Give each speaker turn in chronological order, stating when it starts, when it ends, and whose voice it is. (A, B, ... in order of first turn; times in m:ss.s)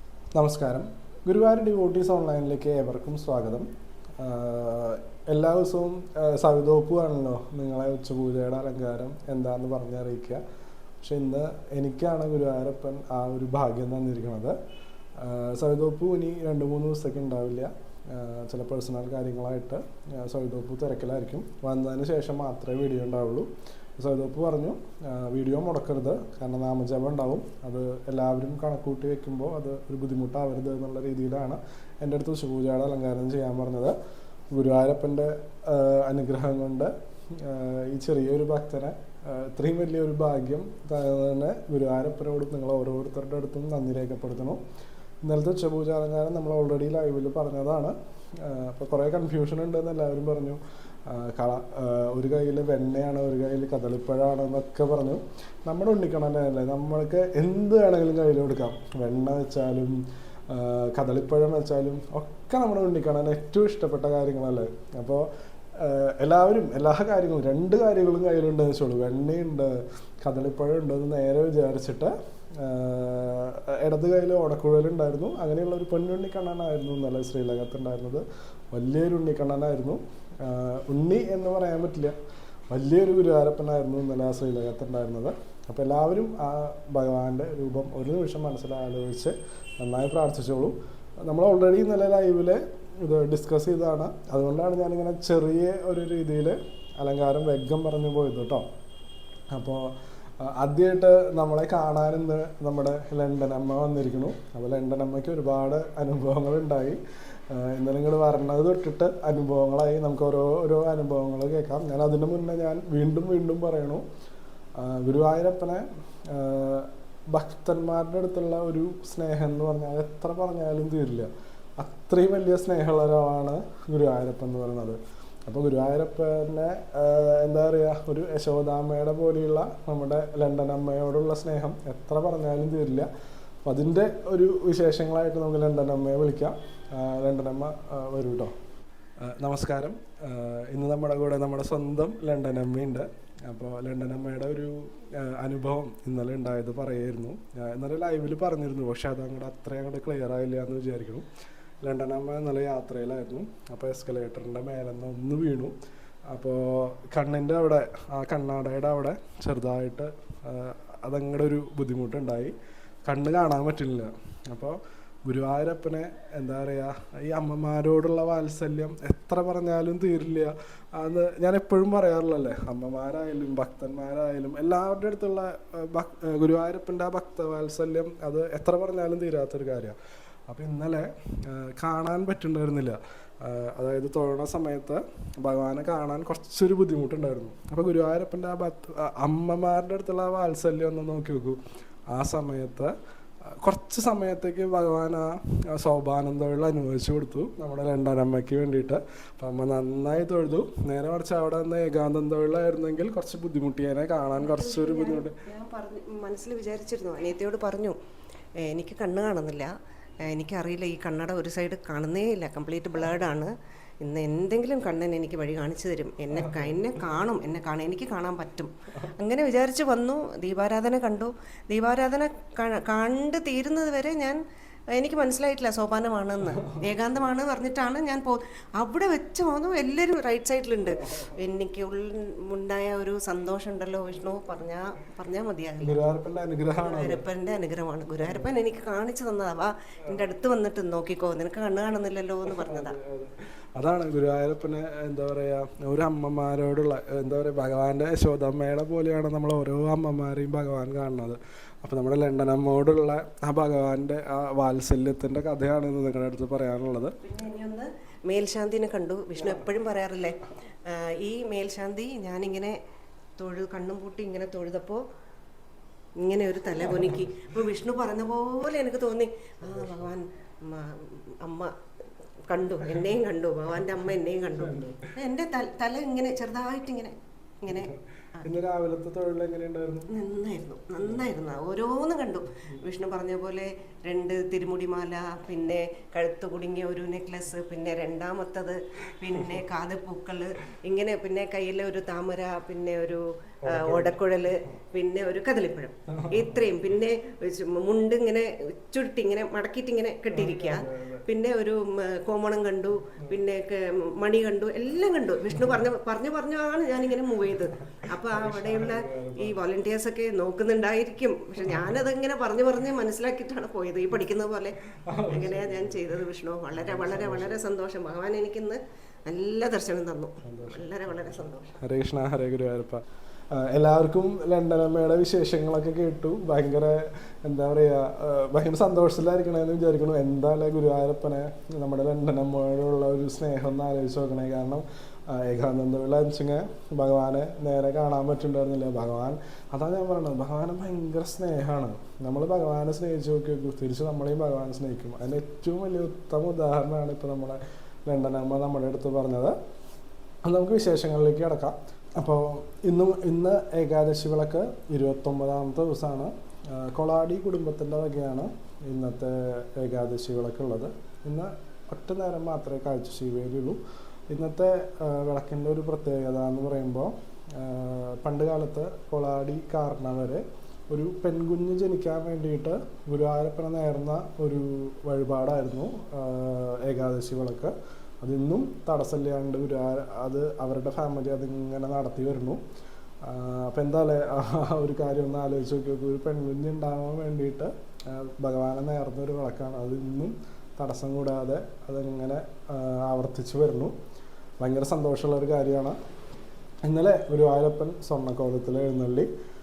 0:00.3-0:03.7 A
0:04.2-0:10.4 A
0:11.0-0:14.5 A
0:15.2-0:34.0 A
0:34.5-0:44.6 A
0:45.2-1:05.2 A
1:05.8-1:22.2 A
1:22.7-1:30.8 A
1:31.3-1:38.6 A
1:39.5-1:47.0 A
1:47.5-1:54.0 A
1:54.8-2:01.3 A
2:01.8-2:13.1 A
2:13.6-2:18.5 A
2:19.2-2:31.2 A
2:31.8-2:35.7 A
2:36.3-3:00.0 A
3:00.5-3:11.6 A
3:12.1-3:12.9 A
3:13.6-3:25.4 A
3:24.4-3:28.0 B
3:28.6-3:29.7 B
3:30.3-3:33.5 B
3:34.0-3:44.4 B
3:36.3-3:36.8 A
3:44.9-3:56.0 B
3:46.5-3:47.0 A
3:50.9-3:51.3 A
3:55.8-3:57.2 A
3:56.8-4:03.0 B
3:58.2-3:58.7 A
4:02.4-4:17.2 A
4:17.2-4:22.7 B
4:19.4-4:19.6 A
4:23.4-4:25.0 B
4:26.2-4:31.7 B
4:26.8-4:27.7 A
4:32.5-4:38.5 B
4:34.5-4:35.1 A
4:37.7-4:40.1 A
4:40.1-5:14.8 B
4:41.0-4:41.3 A
4:53.6-4:54.6 A
4:56.1-4:56.8 A
5:00.3-5:01.3 A
5:05.5-5:05.8 A
5:07.6-5:09.6 A
5:15.0-5:16.2 A
5:15.3-5:21.7 B
5:16.7-5:17.6 A
5:20.4-5:23.0 A
5:23.5-5:49.5 A
5:50.4-6:03.8 A
6:04.3-6:22.6 A
6:23.2-6:33.9 A
6:34.6-6:36.0 A
6:36.8-6:39.3 A